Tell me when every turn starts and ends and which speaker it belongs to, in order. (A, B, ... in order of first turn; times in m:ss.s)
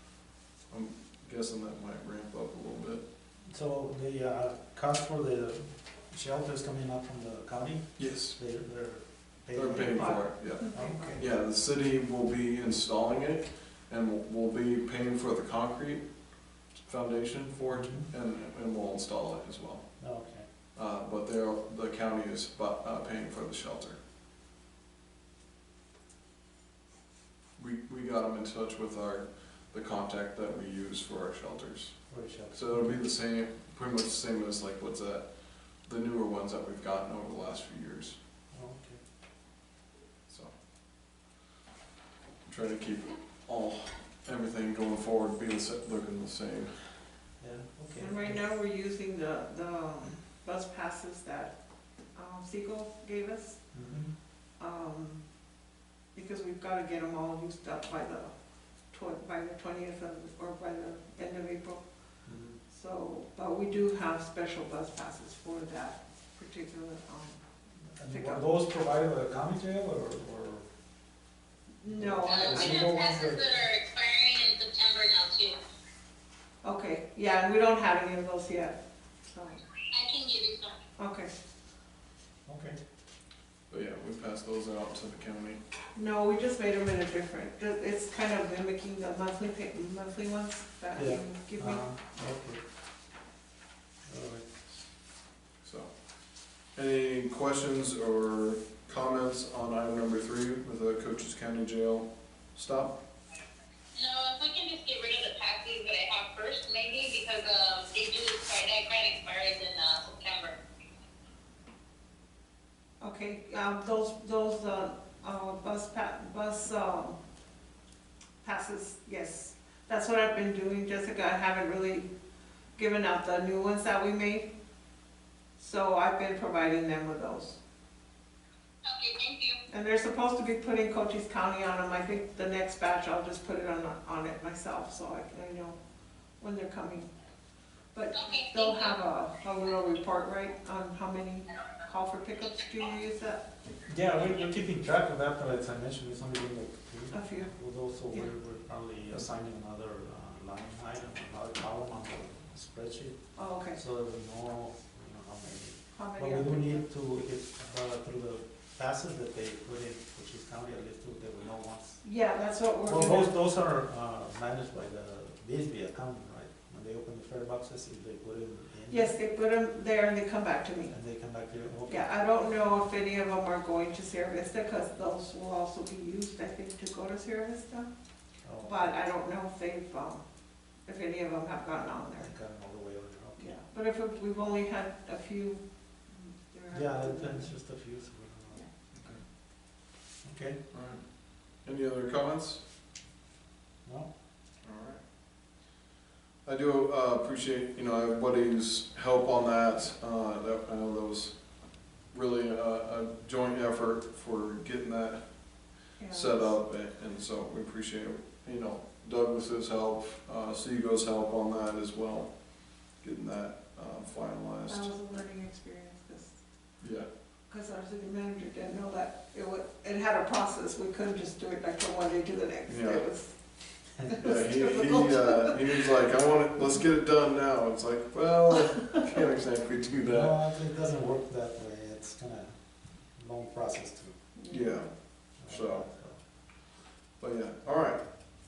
0:00.7-0:03.0 A
0:03.5-0:11.2 B
0:08.0-0:08.4 A
0:09.5-0:16.1 A
0:09.9-0:11.2 C
0:16.7-0:19.9 A
0:17.7-0:18.1 B
0:20.0-0:20.4 B
0:20.8-0:24.0 A
0:27.6-0:38.2 A
0:32.1-0:33.0 B
0:38.5-0:39.0 B
0:40.3-0:40.5 A
0:42.4-0:46.8 A
0:47.4-0:48.4 B
0:48.0-0:51.5 C
0:52.2-0:53.6 C
0:53.7-0:54.1 B
0:54.6-0:55.2 C
0:56.1-0:58.3 C
0:58.9-1:01.8 C
1:02.2-1:02.6 B
1:02.7-1:07.4 C
1:08.0-1:10.6 B
1:08.1-1:08.4 C
1:11.8-1:13.0 C
1:11.8-1:13.5 B
1:12.3-1:15.6 D
1:16.6-1:18.8 C
1:19.3-1:19.6 C
1:19.9-1:20.8 D
1:21.0-1:21.3 C
1:22.4-1:22.8 B
1:23.7-1:25.6 A
1:25.9-1:31.9 C
1:30.9-1:32.6 B
1:34.1-1:34.5 B
1:35.6-1:35.9 A
1:36.7-1:43.0 A
1:43.9-1:50.6 D
1:53.0-1:57.2 C
1:58.4-2:02.1 C
2:02.8-2:04.5 C
2:05.6-2:07.6 C
2:08.8-2:09.6 D
2:09.7-2:15.8 C
2:16.4-2:17.1 C
2:17.9-2:23.4 C
2:18.1-2:19.0 D
2:23.9-2:42.0 B
2:27.1-2:27.5 C
2:33.4-2:33.8 C
2:35.9-2:36.8 C
2:42.0-2:43.3 C
2:42.8-2:49.1 B
2:48.9-2:50.9 C
2:50.9-2:52.0 B
2:51.9-2:57.9 C
2:58.4-2:58.9 B
2:58.6-3:00.2 C
3:00.9-3:02.3 C
3:02.2-3:03.6 B
3:03.4-3:07.5 C
3:06.7-3:08.6 B
3:08.9-3:09.2 A
3:10.2-3:10.6 B
3:10.7-3:12.6 A
3:14.6-3:15.0 A
3:16.4-3:21.4 A
3:22.1-3:34.9 A
3:26.0-3:26.6 C
3:34.7-3:36.4 C
3:36.8-3:37.1 A
3:37.5-3:43.3 C
3:42.7-3:43.0 A
3:44.0-3:45.8 C
3:44.2-3:50.5 A
3:50.0-3:52.5 B
3:53.1-3:54.1 B
3:54.4-3:54.8 C
3:54.5-3:54.9 A
3:55.4-3:56.2 B
3:55.4-3:55.8 A
3:57.2-3:58.0 A